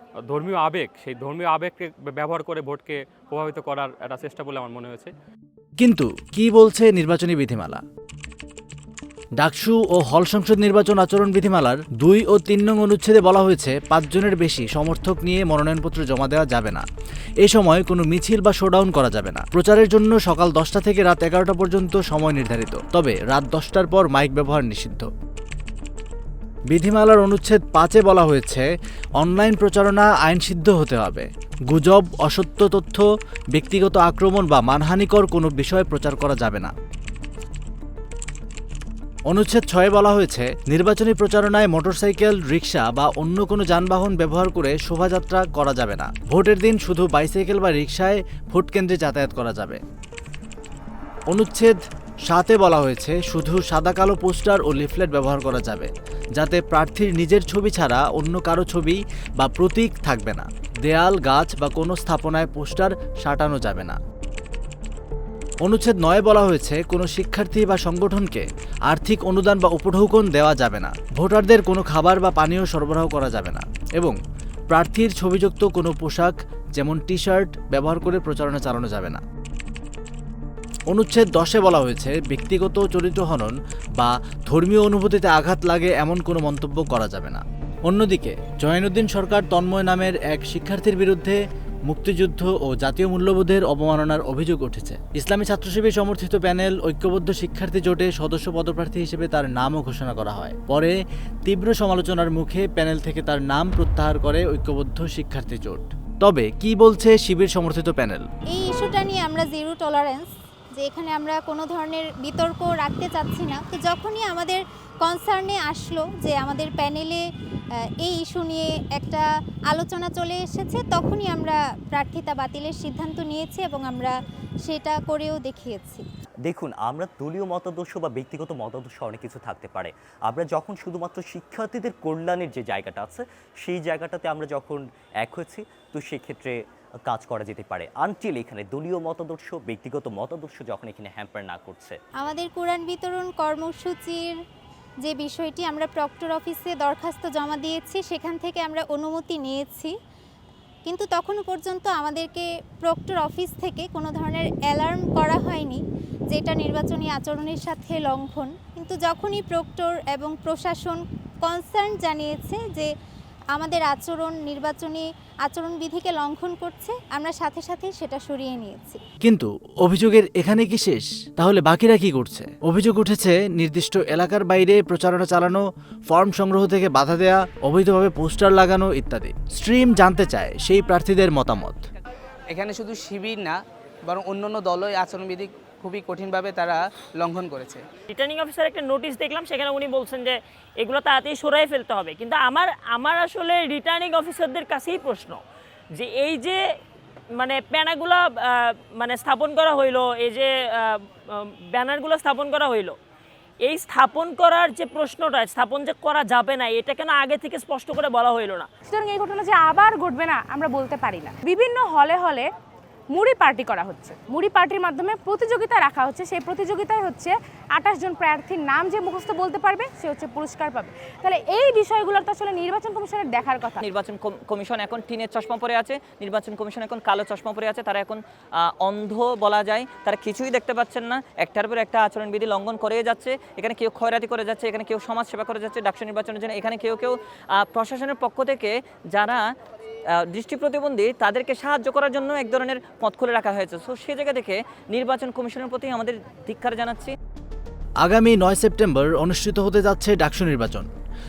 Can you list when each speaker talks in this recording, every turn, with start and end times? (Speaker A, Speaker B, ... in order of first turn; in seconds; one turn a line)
Speaker A: 0.2-5.1
Speaker B: 5.8-7.8
Speaker B: 9.4-16.9
Speaker B: 17.4-25.1
Speaker B: 26.7-28.7
Speaker B: 29.2-36.7
Speaker B: 39.3-49.8
Speaker B: 51.3-64.0
Speaker B: 65.6-74.2
Speaker B: 74.7-79.2
Speaker B: 80.9-101.0
Speaker B: 101.5-108.3
Speaker C: 108.5-117.2
Speaker C: 118.0-124.1
Speaker C: 124.6-126.0
Speaker D: 126.5-142.0
Speaker C: 142.2-144.3
Speaker C: 145.0-149.9
Speaker C: 150.8-162.9
Speaker C: 163.5-169.0
Speaker B: 169.2-181.8
Speaker E: 182.5-187.8
Speaker F: 188.1-195.4
Speaker F: 195.9-196.6
Speaker F: 197.3-202.9
Speaker F: 203.7-208.7
Speaker G: 208.9-212.5
Speaker G: 213.1-223.8
Speaker H: 223.8-239.5
Speaker H: 240.1-247.1
Speaker B: 248.0-250.9